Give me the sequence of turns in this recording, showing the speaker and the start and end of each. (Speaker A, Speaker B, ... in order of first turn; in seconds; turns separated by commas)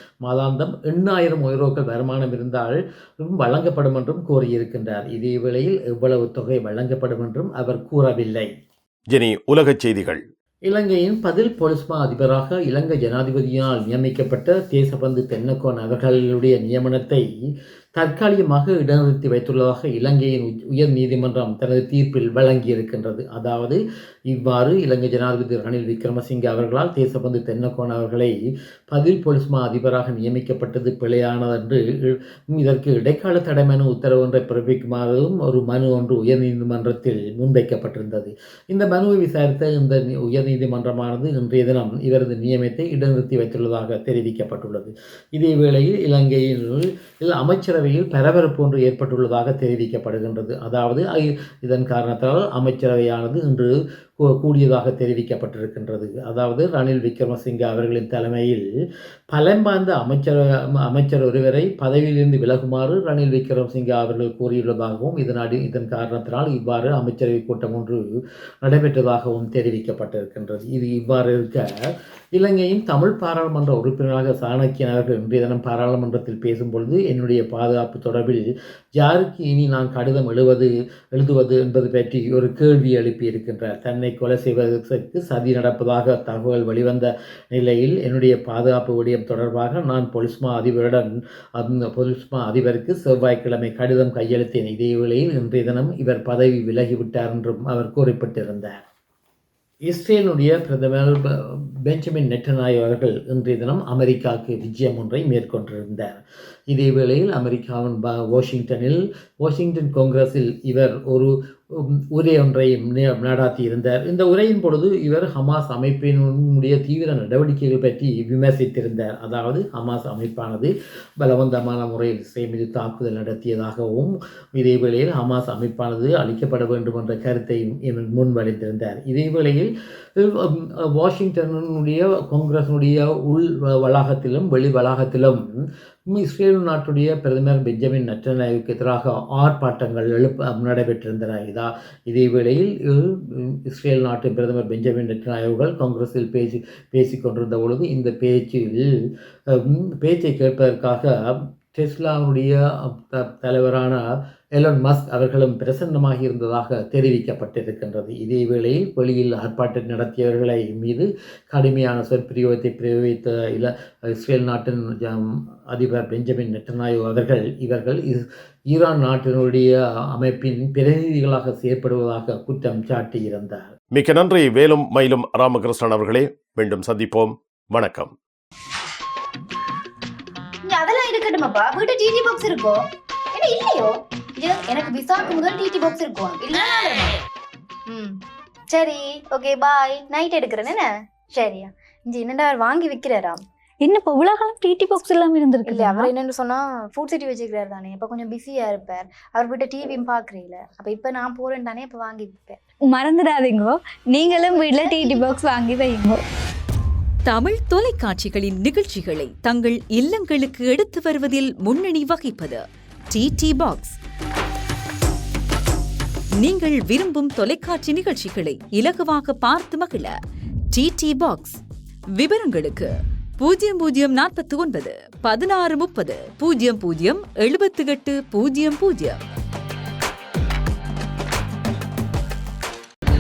Speaker A: 0.2-8.5, Speaker B: 9.1-10.2, Speaker A: 10.7-17.2, Speaker A: 17.9-28.4, Speaker A: 28.9-58.6, Speaker A: 59.3-68.0, Speaker A: 68.6-71.7, Speaker A: 72.3-98.8, Speaker A: 99.8-135.4, Speaker A: 136.1-148.9, Speaker A: 149.5-151.1, Speaker A: 151.7-154.0, Speaker A: 154.5-173.7, Speaker B: 173.9-178.1, Speaker C: 180.6-187.2, Speaker C: 187.9-193.4, Speaker D: 193.8-196.1, Speaker C: 195.7-202.6, Speaker D: 202.9-206.2, Speaker C: 204.2-205.5, Speaker E: 207.2-214.0, Speaker E: 216.4-220.1, Speaker E: 220.7-221.6, Speaker E: 222.2-229.2